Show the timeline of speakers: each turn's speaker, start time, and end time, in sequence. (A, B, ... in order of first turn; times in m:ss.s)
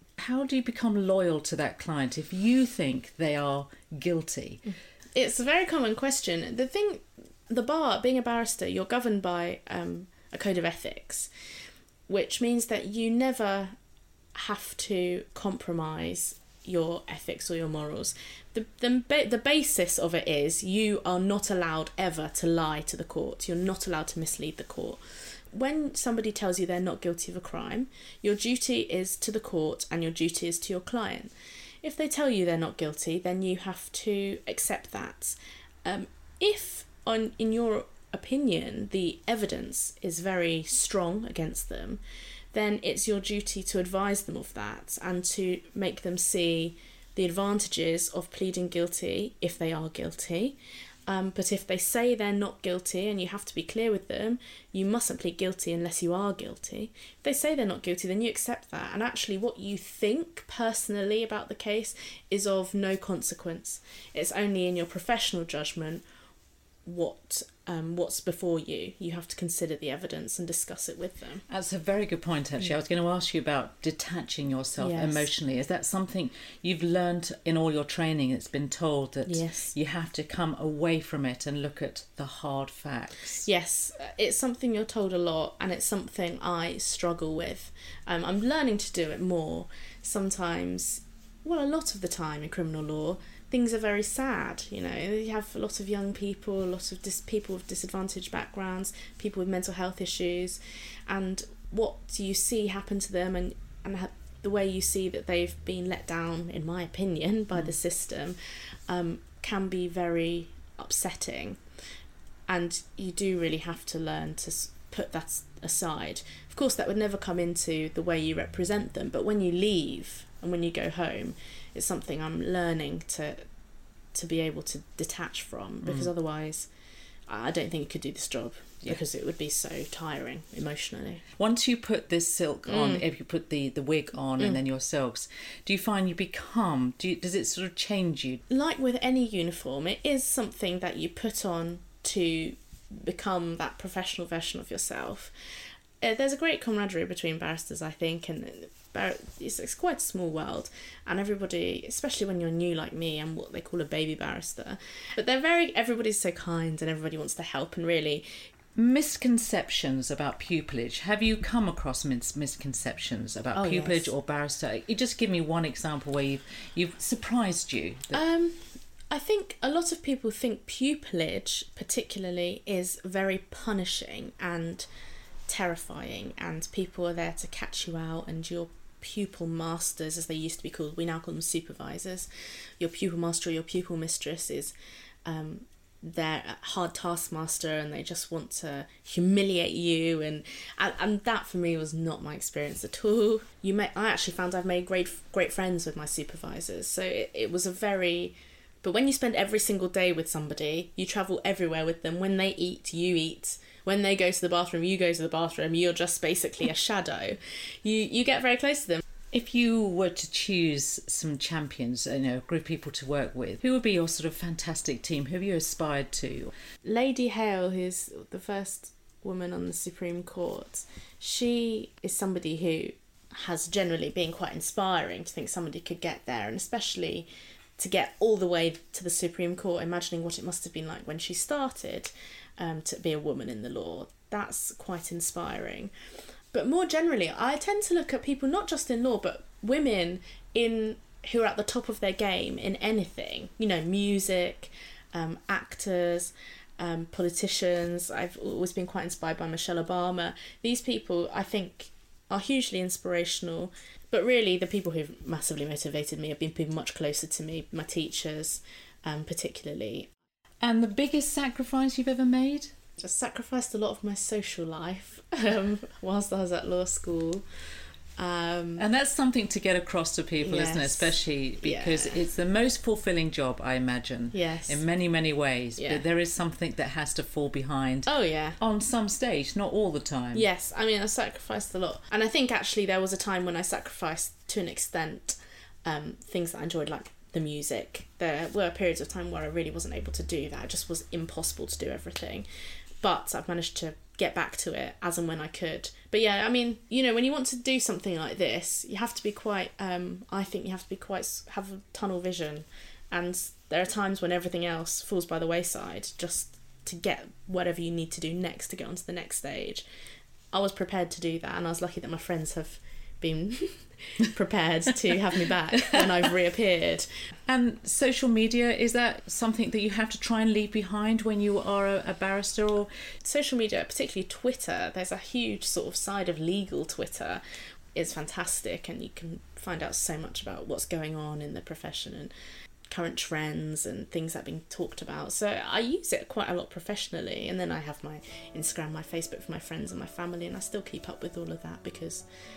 0:00.2-0:04.6 A
0:05.1-0:11.3 B
0:12.1-0:13.8 B
0:14.3-0:31.3 B
0:31.8-0:42.0 B
0:42.5-0:50.6 B
0:51.1-1:06.0 B
1:06.8-1:11.4 B
1:11.5-1:23.4 A
1:14.8-1:15.3 B
1:19.2-1:19.7 B
1:23.4-1:48.4 B
1:48.9-1:51.6 B
1:52.5-2:03.4 B
2:04.1-2:06.7 B
2:07.3-2:11.2 B
2:11.4-2:18.4 A
2:12.7-2:13.0 B
2:18.5-2:25.3 B
2:26.0-2:38.2 B
2:38.8-2:48.2 A
2:43.5-2:44.1 B
2:48.1-2:54.9 B
2:55.5-3:04.7 B
3:05.2-3:29.0 B
3:29.3-3:36.5 A
3:36.8-3:55.9 B
3:56.5-4:20.1 B
4:20.6-4:22.7 A
4:23.0-4:27.4 B
4:28.2-4:28.8 B
4:28.8-4:40.5 A
4:30.4-4:32.2 B
4:34.3-4:34.8 B
4:35.8-4:36.0 B
4:38.0-4:38.6 B
4:40.3-4:52.4 B
4:53.0-5:09.8 B
5:10.5-5:17.1 B
5:17.5-5:22.9 A
5:23.2-5:27.4 B
5:27.9-5:32.3 B
5:32.9-5:42.2 B